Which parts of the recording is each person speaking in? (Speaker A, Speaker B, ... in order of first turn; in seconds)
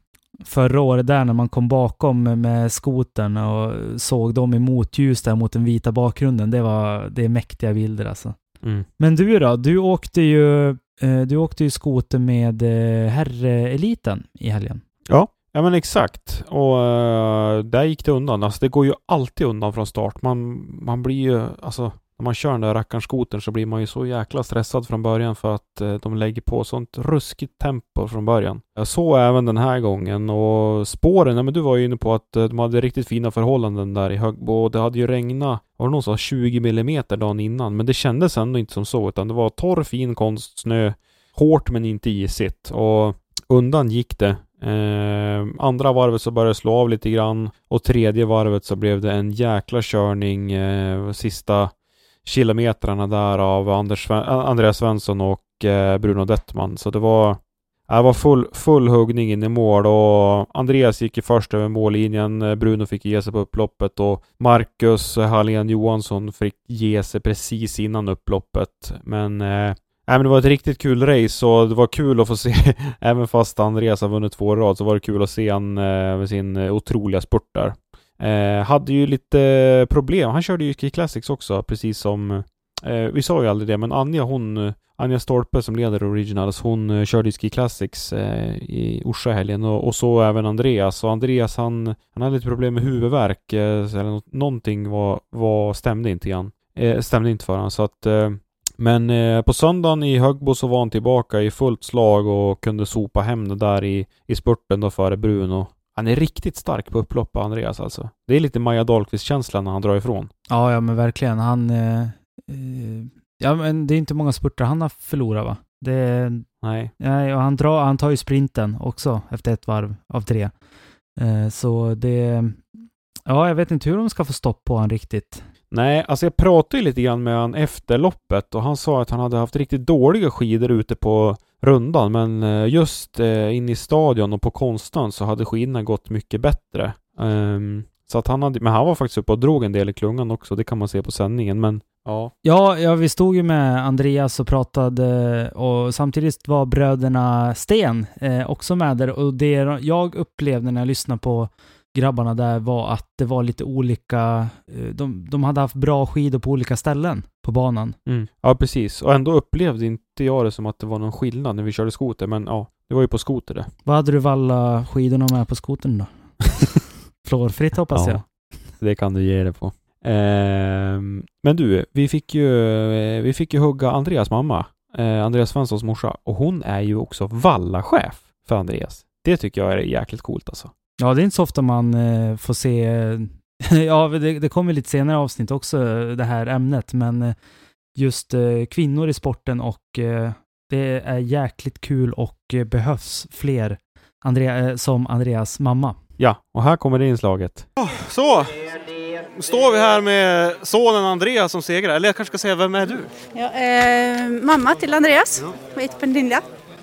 Speaker A: 0.4-14.8, 110.5-120.6, 121.2-122.7, 123.3-125.5, 142.4-158.0, 163.8-166.5, 167.2-168.5, 181.0-187.3, 187.9-196.0
Speaker B: 15.1-110.3, 116.6-116.9, 125.7-142.3, 158.1-163.7, 167.9-180.7, 196.2-197.7
Speaker C: 197.8-198.6, 199.3-203.1
Speaker D: 203.3-206.4